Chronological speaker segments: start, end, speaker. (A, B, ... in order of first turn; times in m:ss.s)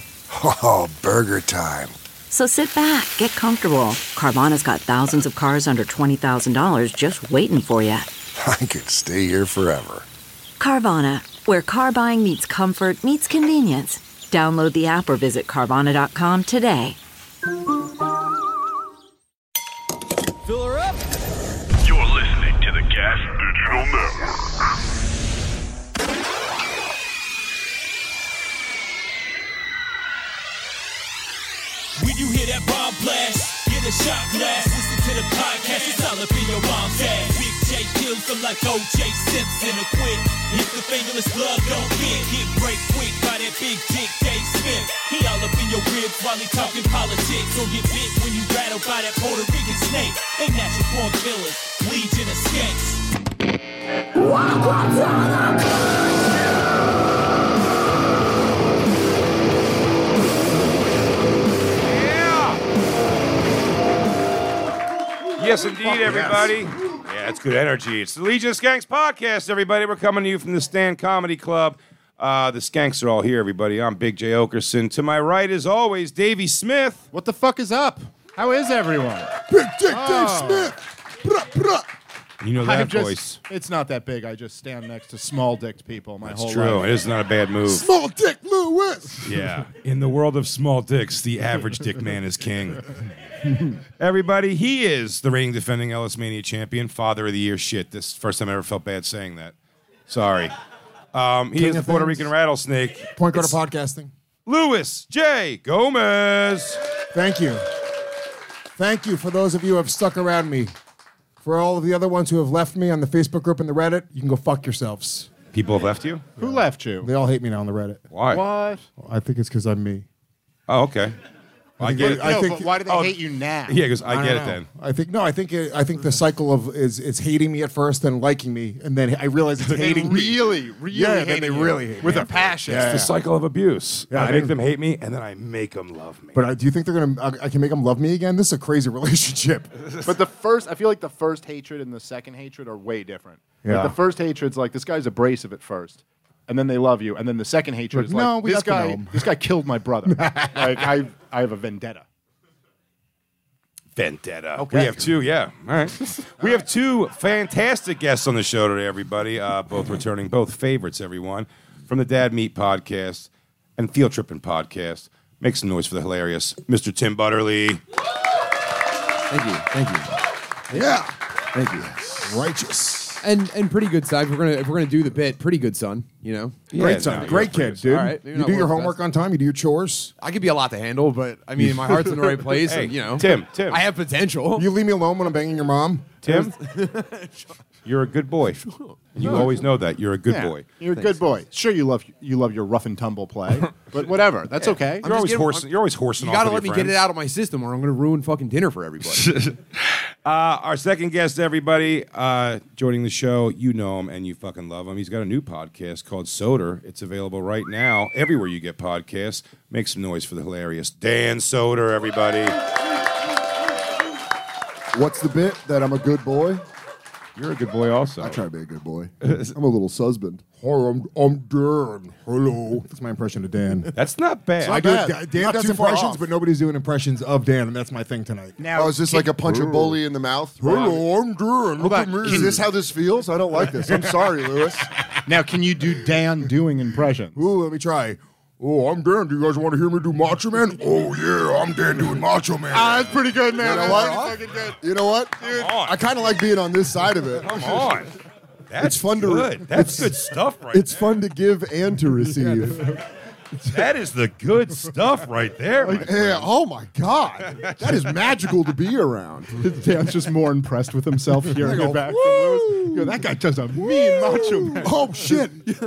0:00.3-0:01.9 A
0:02.3-0:08.1 B
0:08.4-0:10.1 A
0:10.6-0:17.0 B
0:21.8-0:24.1 C
0:32.0-0:53.0 D
1:01.8-1:02.6 E
1:05.4-1:17.0 E
1:05.9-1:06.5 F
1:17.1-1:19.3 G
1:19.5-1:21.9 F
1:19.9-1:20.8 G
1:22.4-1:23.4 E
1:22.6-1:26.9 G
1:26.2-1:27.8 E
1:27.7-1:29.4 F
1:29.2-1:32.8 E
1:34.0-1:39.5 E
1:40.1-1:40.5 E
1:41.1-1:43.5 E
1:41.6-1:42.3 F
1:43.2-1:44.1 F
1:44.4-1:46.8 E
1:47.1-1:47.6 F
1:48.8-1:50.7 F
1:51.4-1:55.3 F
1:55.5-1:56.2 E
1:56.4-1:57.1 G
1:56.4-1:58.0 F
1:58.1-1:58.4 E
1:58.3-1:58.8 G
1:59.0-2:00.0 F
2:00.7-2:01.2 E
2:01.8-2:02.8 F
2:01.8-2:03.1 E
2:01.9-2:03.8 G
2:03.7-2:04.7 E
2:04.0-2:13.1 F
2:09.6-2:13.0 G
2:12.7-2:16.4 E
2:14.1-2:14.6 F
2:16.3-2:19.7 F
2:20.0-2:32.0 G
2:23.6-2:23.9 F
2:27.9-2:29.3 F
2:30.0-2:30.7 F
2:34.0-2:47.8 E
2:34.6-2:35.1 F
2:49.3-2:50.1 H
2:50.7-2:51.0 F
2:51.5-2:52.2 H
2:52.2-2:53.2 F
2:53.2-2:59.0 H
2:56.7-2:57.9 E
2:56.8-3:00.1 F
3:00.2-3:04.7 H
3:02.6-3:03.8 E
3:04.5-3:06.1 F
3:06.2-3:06.5 E
3:06.2-3:07.3 H
3:07.8-3:08.6 E
3:08.7-3:09.4 H
3:09.1-3:10.6 E
3:09.2-3:09.5 G
3:10.3-3:15.0 G
3:14.9-3:19.4 H
3:15.0-3:17.0 E
3:19.2-3:32.6 E
3:34.9-3:36.6 I
3:37.4-3:38.4 E
3:38.2-3:40.4 I
3:40.6-3:43.9 F
3:43.9-3:44.9 E
3:44.6-3:48.6 F
3:44.6-3:46.2 I
3:48.6-3:49.6 G
3:48.7-3:51.1 I
3:50.6-3:52.6 F
3:51.8-3:52.6 G
3:52.2-3:54.9 I
3:55.2-3:57.4 G
3:57.3-4:02.8 F
4:01.1-4:03.0 I
4:02.7-4:04.8 G
4:03.5-4:07.7 I
4:05.4-4:05.7 G
4:05.4-4:05.9 E
4:07.4-4:08.1 E
4:08.7-4:11.0 E
4:08.8-4:10.1 I
4:10.7-4:12.9 I
4:13.6-4:16.5 E
4:16.0-4:19.6 I
4:19.6-4:25.0 G
4:21.6-4:22.9 I
4:22.2-4:22.9 F
4:24.7-4:25.6 I
4:24.7-4:25.6 F